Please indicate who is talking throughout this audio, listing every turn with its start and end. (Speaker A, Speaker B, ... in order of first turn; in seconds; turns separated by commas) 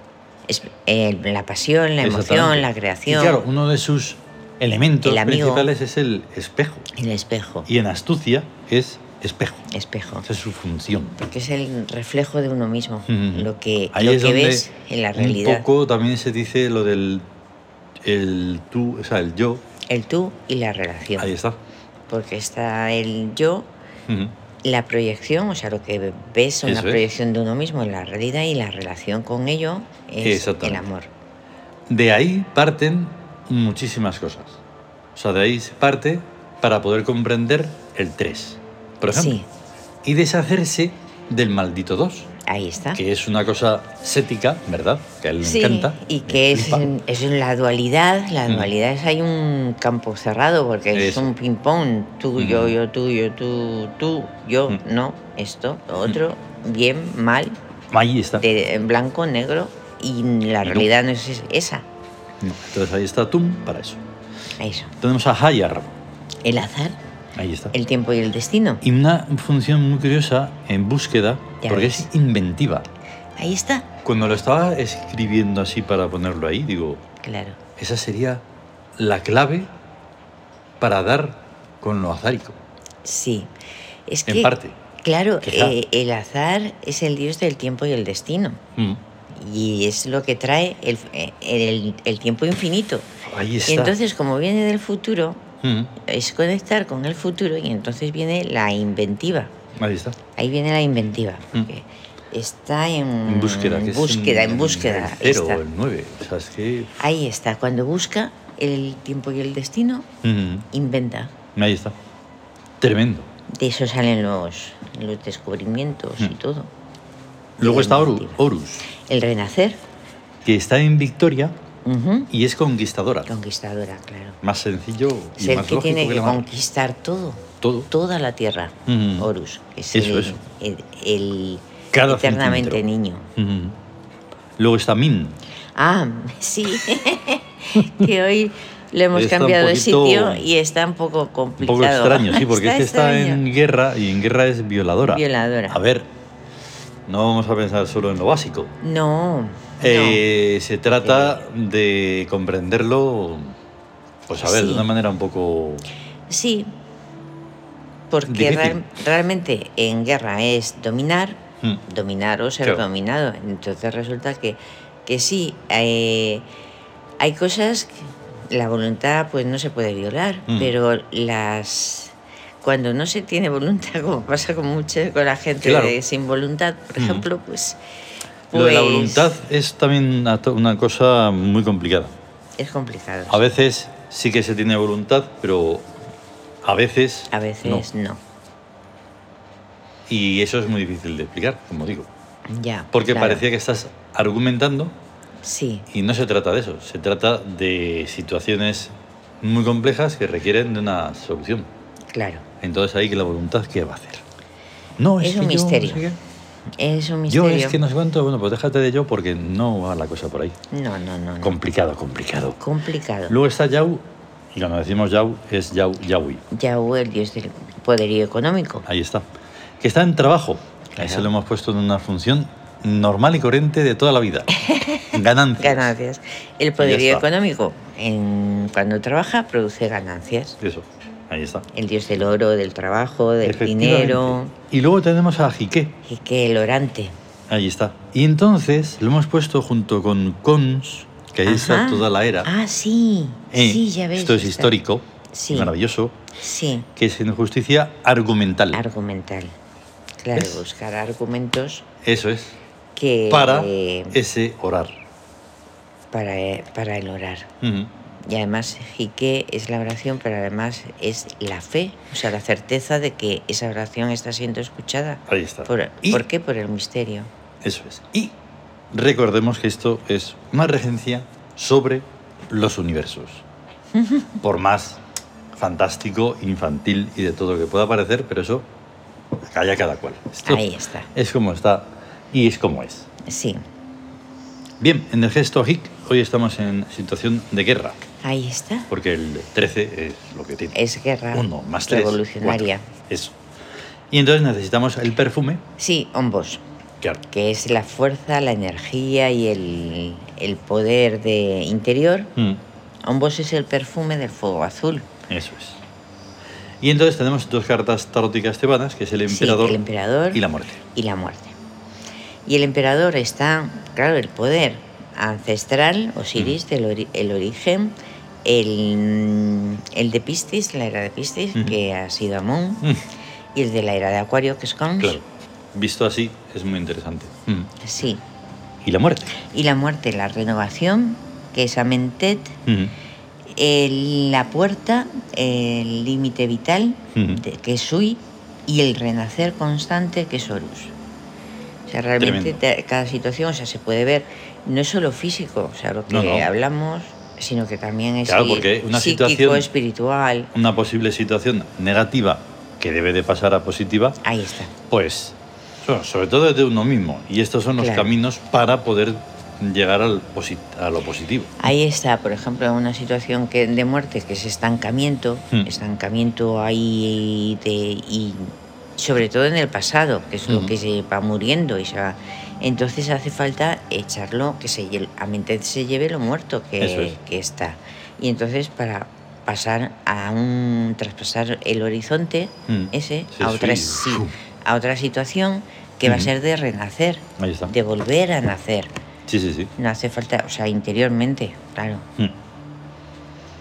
Speaker A: 0.5-3.4, Speaker B: 2.0-6.9, Speaker A: 5.0-5.7, Speaker A: 6.9-7.7, Speaker B: 7.7-9.7, Speaker A: 9.7-10.3, Speaker B: 10.2-11.2, Speaker A: 11.2-15.7, Speaker B: 13.1-17.3, Speaker B: 18.0-19.6, Speaker A: 19.9-21.3, Speaker B: 21.2-21.6, Speaker A: 22.1-23.7, Speaker B: 24.1-24.3, Speaker A: 24.6-31.1, Speaker B: 26.6-27.1, Speaker B: 30.2-30.9, Speaker B: 31.9-34.6, Speaker B: 35.1-39.4, Speaker A: 39.1-39.5, Speaker B: 40.0-42.3, Speaker A: 42.5-43.0, Speaker B: 43.0-46.9, Speaker A: 45.4-57.6, Speaker B: 50.9-51.3, Speaker B: 52.4-52.8, Speaker B: 57.9-58.5, Speaker A: 58.4-61.9, Speaker B: 60.6-60.9, Speaker B: 62.4-64.0, Speaker A: 64.6-65.0, Speaker B: 65.0-65.9, Speaker A: 66.4-67.0, Speaker B: 67.4-67.7, Speaker A: 67.7-68.8, Speaker B: 68.8-72.9, Speaker A: 71.6-72.1, Speaker A: 73.4-73.9, Speaker B: 74.0-77.0, Speaker A: 77.2-77.6, Speaker B: 77.8-78.4, Speaker B: 79.0-79.7, Speaker B: 80.8-82.6, Speaker A: 83.0-83.5, Speaker A: 84.1-88.6, Speaker B: 84.3-84.8, Speaker B: 85.4-85.8, Speaker A: 89.3-93.1, Speaker B: 93.2-94.0, Speaker A: 93.6-95.4, Speaker B: 95.6-95.9, Speaker A: 96.0-99.5, Speaker B: 99.8-100.2, Speaker A: 100.3-105.6, Speaker B: 103.3-107.0, Speaker A: 107.0-110.1, Speaker B: 110.2-110.7, Speaker A: 110.7-111.3, Speaker B: 111.5-112.0, Speaker B: 112.8-113.3, Speaker A: 113.5-116.7, Speaker B: 117.6-118.8, Speaker A: 117.6-119.8, Speaker B: 120.4-121.5, Speaker A: 121.8-122.3, Speaker B: 122.3-123.3, Speaker A: 123.3-124.4, Speaker B: 124.4-126.5, Speaker A: 125.4-133.3, Speaker B: 127.6-127.9, Speaker B: 128.9-129.3, Speaker B: 129.9-130.3, Speaker B: 131.9-132.8, Speaker B: 133.4-133.8, Speaker B: 134.6-135.4, Speaker A: 135.8-143.4, Speaker B: 139.1-140.5, Speaker B: 141.6-146.1, Speaker A: 145.0-145.8, Speaker B: 147.1-148.7, Speaker A: 148.8-150.2, Speaker B: 149.8-153.5, Speaker A: 150.9-151.4, Speaker B: 154.3-155.8, Speaker A: 154.4-154.9, Speaker A: 156.3-156.8, Speaker A: 158.1-166.5, Speaker B: 158.3-158.8, Speaker A: 167.2-177.8, Speaker B: 175.6-176.0, Speaker B: 177.0-177.3, Speaker A: 178.5-179.3, Speaker B: 178.5-182.2, Speaker A: 182.6-183.5, Speaker B: 183.3-185.9, Speaker B: 186.6-187.9, Speaker A: 187.3-188.2, Speaker B: 190.1-192.1, Speaker A: 192.5-193.4, Speaker B: 192.9-194.9, Speaker A: 195.4-195.9, Speaker B: 195.9-201.7, Speaker A: 202.1-202.4, Speaker B: 202.6-204.2, Speaker B: 205.0-206.2, Speaker A: 205.2-206.0, Speaker A: 206.8-207.8, Speaker B: 207.3-210.6, Speaker A: 210.7-211.6, Speaker B: 211.4-212.6, Speaker A: 212.6-213.4, Speaker B: 213.3-216.4, Speaker A: 216.5-218.8, Speaker B: 218.8-219.3, Speaker B: 219.8-224.5, Speaker A: 221.0-221.3, Speaker A: 224.5-230.6, Speaker B: 225.1-225.9, Speaker B: 226.8-227.3, Speaker B: 230.6-231.7, Speaker A: 231.7-234.5, Speaker B: 233.4-236.0, Speaker A: 236.0-237.1, Speaker B: 237.5-242.5, Speaker A: 241.4-244.7, Speaker B: 243.5-246.2, Speaker A: 245.3-245.7, Speaker A: 246.4-246.9, Speaker B: 247.0-248.8, Speaker A: 248.7-249.6, Speaker A: 250.2-251.9, Speaker B: 250.3-250.6, Speaker B: 252.0-252.6, Speaker A: 253.0-254.2, Speaker B: 253.3-254.9, Speaker A: 256.1-257.5, Speaker B: 257.6-257.9, Speaker A: 258.2-267.3, Speaker B: 265.3-266.2, Speaker B: 267.6-268.4, Speaker B: 268.9-273.4, Speaker A: 273.9-274.3, Speaker B: 274.4-275.0, Speaker B: 275.5-278.7, Speaker B: 279.4-283.1, Speaker A: 280.5-281.1, Speaker A: 283.2-283.6, Speaker B: 284.8-288.0, Speaker A: 288.2-288.9, Speaker B: 288.9-290.8, Speaker A: 290.7-292.9, Speaker B: 291.3-293.4, Speaker B: 294.1-295.6, Speaker A: 295.8-296.6, Speaker A: 297.3-302.3, Speaker A: 303.1-305.1, Speaker B: 305.3-305.8, Speaker B: 306.8-309.8, Speaker A: 309.3-311.6, Speaker B: 310.3-310.8, Speaker A: 312.5-317.9, Speaker A: 318.4-323.0, Speaker A: 323.6-325.2, Speaker B: 325.7-327.7, Speaker A: 327.8-328.2, Speaker B: 328.8-329.4, Speaker A: 329.4-332.6, Speaker B: 332.7-332.9, Speaker A: 333.5-340.9, Speaker B: 337.1-337.4, Speaker A: 341.9-350.5, Speaker B: 342.2-342.6, Speaker B: 346.1-346.5, Speaker B: 348.3-349.7, Speaker B: 350.5-354.2, Speaker A: 354.2-354.7, Speaker B: 354.9-361.5, Speaker A: 357.8-358.1, Speaker A: 361.6-388.9, Speaker B: 370.5-370.7, Speaker B: 376.8-377.1, Speaker B: 382.7-384.3, Speaker B: 387.4-387.7, Speaker B: 389.3-389.7, Speaker A: 389.8-392.1